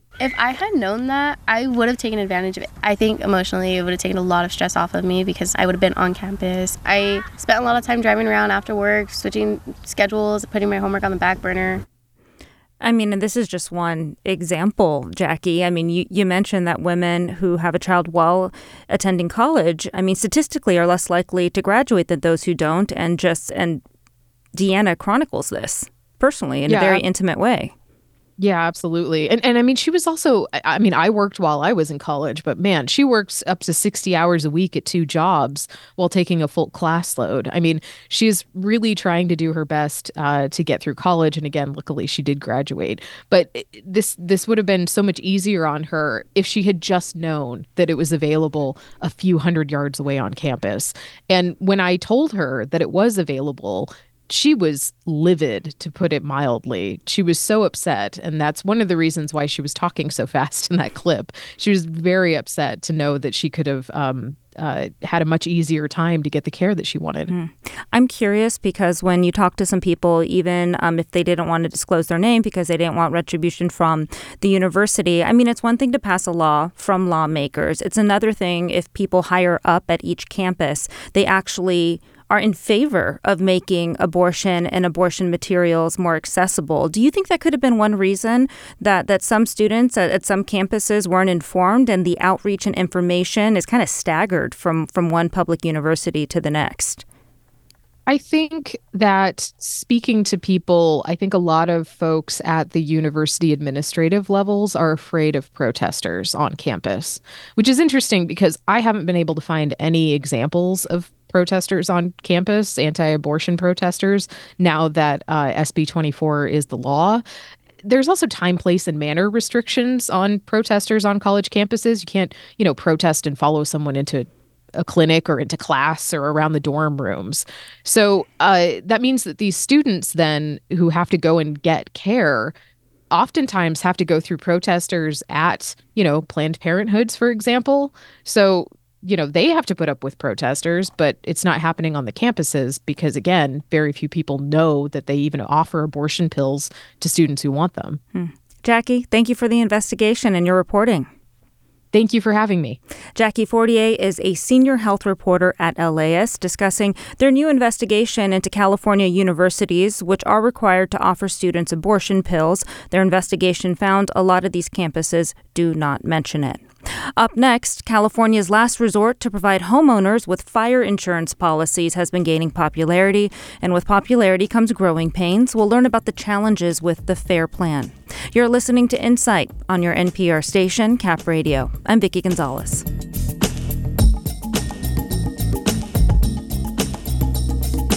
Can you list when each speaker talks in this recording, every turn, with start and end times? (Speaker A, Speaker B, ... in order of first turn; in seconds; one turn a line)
Speaker A: 0.2-11.8
Speaker B: 12.8-23.8
Speaker B: 24.5-27.7
Speaker C: 26.7-27.0
Speaker C: 28.4-67.3
Speaker B: 67.3-97.0
Speaker C: 98.1-117.2
Speaker C: 117.8-132.5
Speaker C: 133.1-148.0
Speaker B: 148.2-151.1
Speaker C: 151.9-152.8
Speaker B: 153.2-166.6
Speaker B: 167.2-182.8